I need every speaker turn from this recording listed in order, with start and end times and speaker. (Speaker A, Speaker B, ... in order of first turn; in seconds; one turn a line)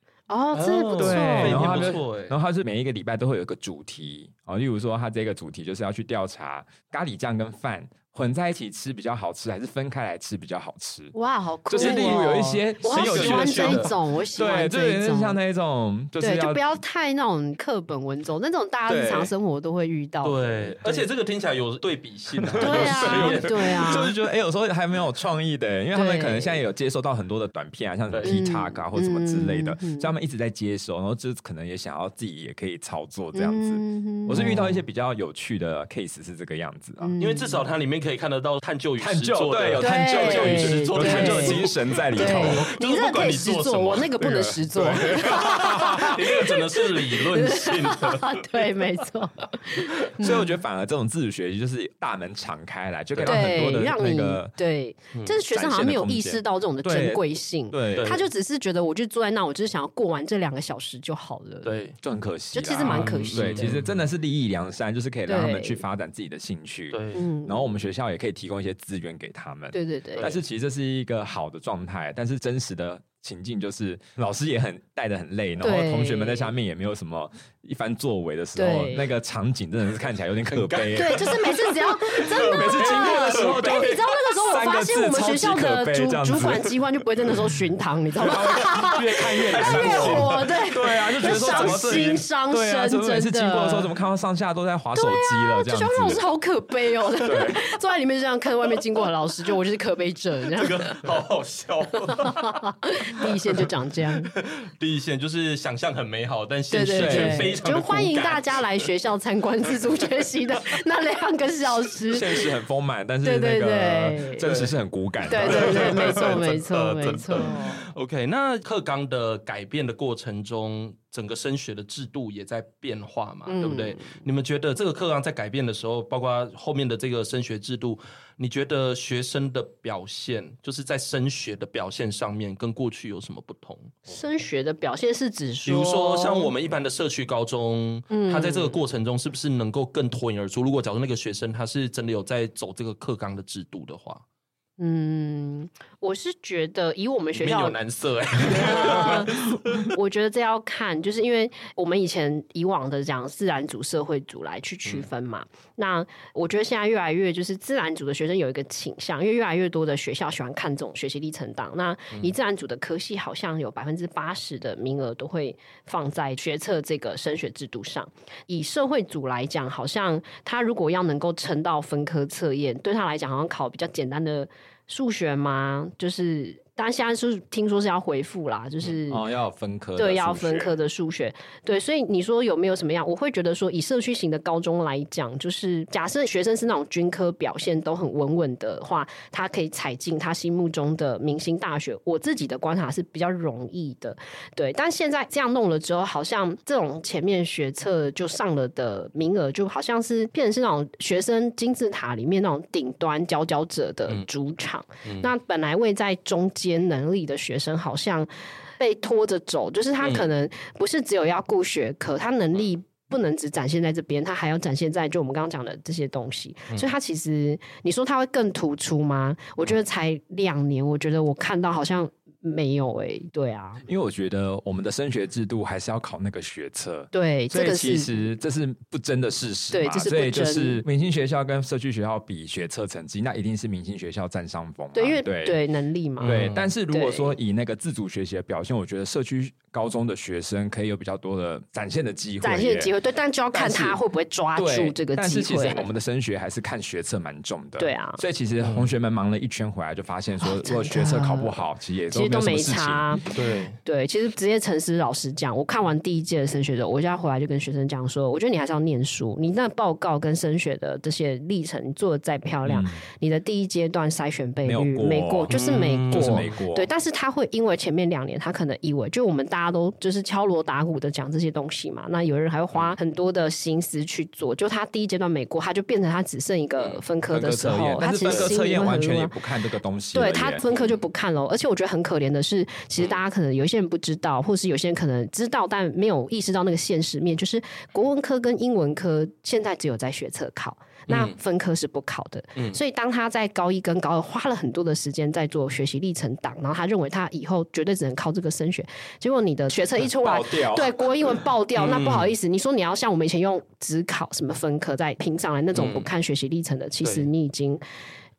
Speaker A: 0.3-2.0
Speaker B: 0.5-2.4
Speaker C: 1.0-11.1
Speaker A: 11.1-15.4
Speaker C: 11.7-16.6
Speaker B: 11.8-13.9
Speaker A: 16.2-21.1
Speaker C: 18.9-19.3
Speaker B: 20.2-24.1
Speaker C: 22.4-37.1
Speaker A: 22.6-24.1
Speaker A: 25.9-26.6
Speaker B: 28.1-28.4
Speaker A: 28.2-30.1
Speaker A: 33.3-34.8
Speaker A: 37.0-37.6
Speaker B: 37.2-44.1
Speaker C: 39.0-42.7
Speaker A: 39.8-50.6
Speaker C: 44.2-46.4
Speaker B: 45.1-48.6
Speaker C: 50.2-54.5
Speaker B: 53.1-53.9
Speaker A: 53.2-61.7
Speaker C: 55.5-58.1
Speaker B: 57.9-58.3
Speaker B: 61.6-62.0
Speaker C: 62.0-86.8
Speaker A: 62.5-63.8
Speaker B: 62.8-64.0
Speaker A: 65.3-65.8
Speaker B: 66.9-67.3
Speaker A: 67.1-67.6
Speaker A: 69.7-70.3
Speaker A: 75.6-76.5
Speaker A: 78.6-79.1
Speaker B: 80.5-84.0
Speaker A: 81.0-93.9
Speaker C: 88.2-96.2
Speaker B: 89.3-92.2
Speaker A: 95.0-101.1
Speaker C: 97.2-97.7
Speaker B: 100.5-102.7
Speaker A: 102.0-104.3
Speaker B: 104.3-108.9
Speaker A: 106.7-112.4
Speaker C: 107.0-107.6
Speaker C: 112.1-116.3
Speaker A: 113.2-114.5
Speaker B: 114.4-114.8
Speaker A: 115.3-117.9
Speaker B: 115.3-134.0
Speaker A: 123.5-124.2
Speaker A: 134.1-136.5
Speaker B: 135.7-144.2
Speaker A: 138.1-138.8
Speaker A: 144.8-147.8
Speaker B: 147.3-149.3
Speaker A: 148.4-179.2
Speaker C: 179.1-180.7
Speaker A: 180.0-223.8
Speaker B: 210.0-210.3
Speaker C: 223.8-235.6
Speaker A: 227.1-228.2
Speaker A: 229.7-230.8
Speaker A: 234.9-237.4
Speaker B: 236.2-236.7
Speaker C: 236.2-242.9
Speaker A: 242.4-245.9
Speaker C: 243.5-244.0
Speaker C: 244.6-253.2
Speaker A: 247.8-248.2
Speaker B: 248.6-248.9
Speaker A: 250.4-279.4
Speaker B: 253.3-253.8
Speaker C: 262.7-263.0
Speaker C: 264.6-266.9
Speaker B: 265.5-266.6
Speaker B: 276.8-277.0
Speaker C: 277.3-280.6
Speaker B: 278.1-278.5
Speaker A: 280.1-307.8
Speaker B: 280.7-281.0
Speaker B: 291.1-291.4
Speaker C: 300.1-301.0
Speaker B: 301.8-302.3
Speaker B: 305.7-306.1
Speaker B: 307.0-307.3